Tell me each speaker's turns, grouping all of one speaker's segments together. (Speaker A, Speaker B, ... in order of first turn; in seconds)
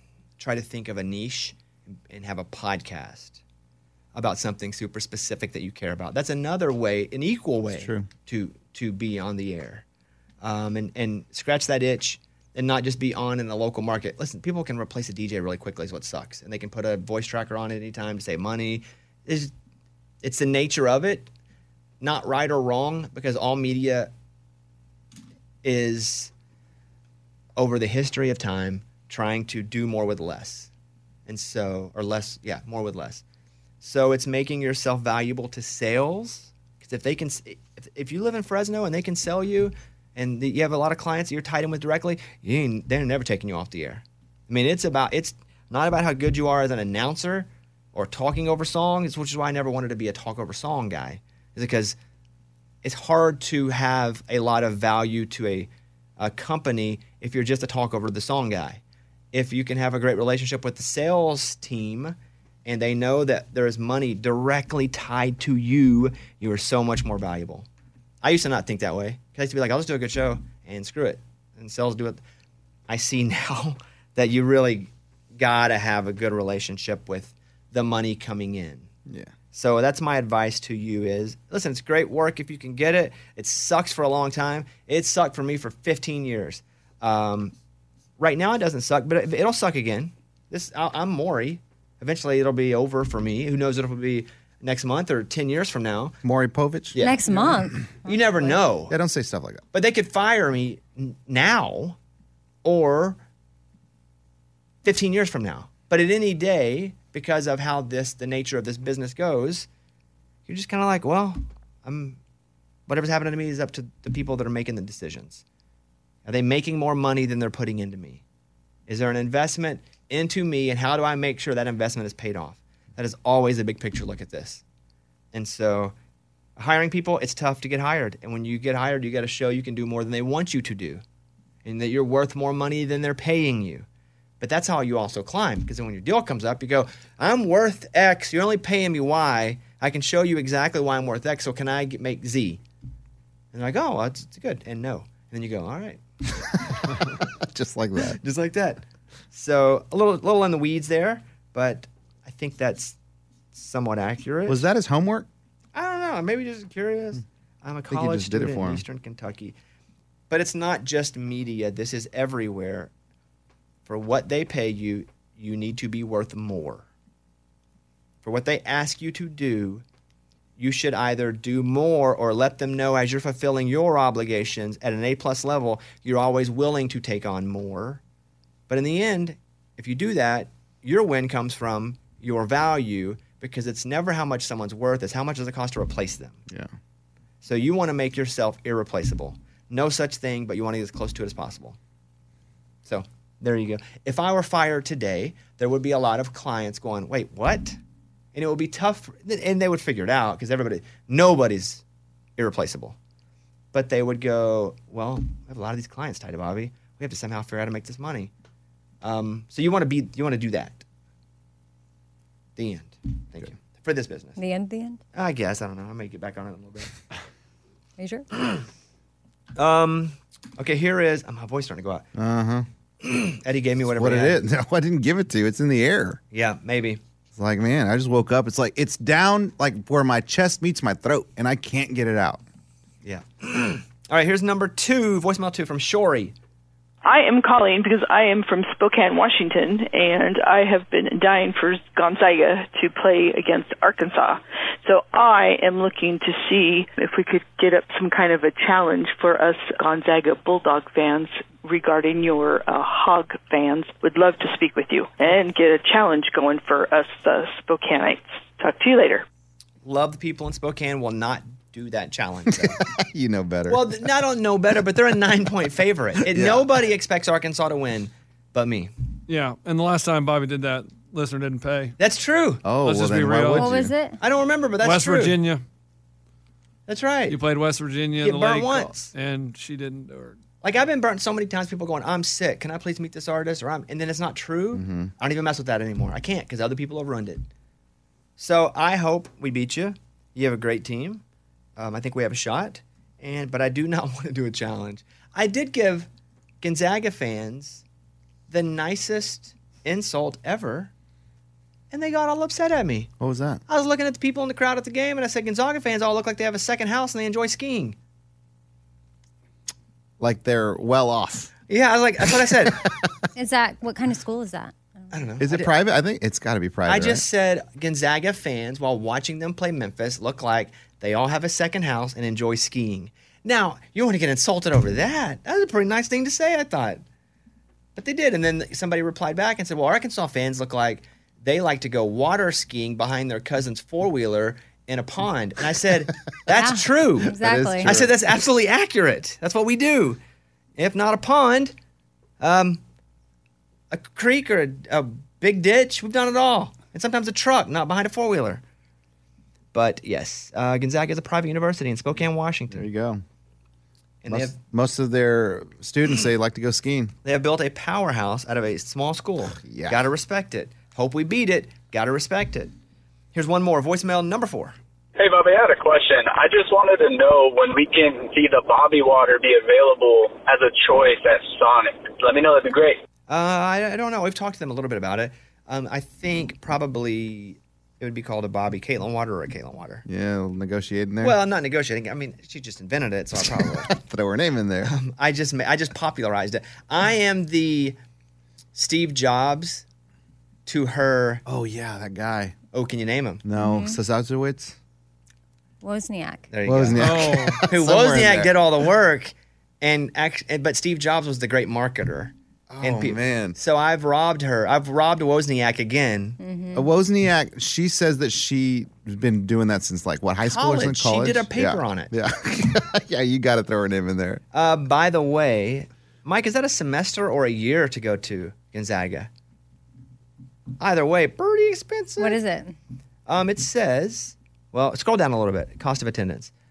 Speaker A: 0.4-3.4, 4.1-9.8, 10.4-19.5, 20.2-21.3, 22.0-24.1, 25.6-26.3, 27.6-30.7, 31.3-33.2, 33.8-52.0, 52.8-58.8, 59.3-67.7, 68.2-72.2, 72.9-78.9, 79.5-87.5, 88.2-96.2, 96.9-98.9, 99.7-102.0, 102.6-103.2, 104.8-109.7, 110.5-112.2, 112.9-115.4, 116.2-118.2, 118.9-124.6, 125.3-125.9, 126.6-131.0, 131.6-133.8, 134.4-142.6, 143.5-146.0, 148.2-152.9, 153.5-154.7, 155.7-159.5, 160.3-162.9, 163.8-166.8, 168.2-169.8, 170.6-178.0, 178.7-186.4, 187.4-191.8, 192.8-197.8, 198.3-201.8, 202.4-203.0, 203.7-208.3, 209.0-210.8, 212.6-214.4, 215.1-216.9, 218.3-218.6, 219.6-222.1, 223.0-224.4, 226.3-227.0, 233.0-236.3, 259.8-262.8, 263.7-268.9, 272.0-272.6, 274.2-275.3, 276.9-277.4, 278.2-279.1, 280.6-287.5, 288.4-291.2, 291.8-296.1, 296.6-297.8, 298.5-300.9, 301.9-303.1, 303.7-307.9, 311.7-312.9, 315.1-315.7, 316.9-327.0, 327.9-337.3, 337.8-340.2, 340.8-341.7, 342.4-342.8, 343.9-348.6, 349.7-352.9, 354.2-354.6, 357.2-362.7, 363.3-364.7, 373.3-380.0, 381.2-383.9, 384.8-388.0, 388.7-389.8, 390.6-391.4, 392.7-393.4, 396.5-406.4, 410.4-412.1, 414.5-419.3, 420.8-422.4, 423.3-426.5
Speaker B: 7.7-8.1, 96.2-97.0, 98.9-99.6, 146.6-148.2, 154.5-155.3, 157.9-158.8, 222.1-222.7, 223.9-226.2, 227.3-232.4, 262.5-264.1, 266.2-266.6, 272.6-273.9, 284.7-285.1, 303.2-303.6, 310.2-311.5, 312.3-313.1, 315.4-317.2, 337.2-338.1, 352.7-353.2, 354.3-357.1, 359.6-360.0, 380.1-381.4, 383.6-384.9, 391.4-392.5, 393.4-394.7, 396.6-398.6, 402.7-403.6, 406.7-414.4
Speaker C: 97.0-98.6, 214.4-215.0, 218.0-218.2, 273.5-274.2, 313.4-314.7, 336.5-337.9, 393.6-394.0, 395.8-396.5, 406.4-406.9, 422.2-422.8
Speaker D: 237.0-259.2
Speaker E: 269.3-271.9, 272.8-273.7, 274.8-275.6, 277.3-280.4, 397.0-397.6
Speaker F: 365.2-373.0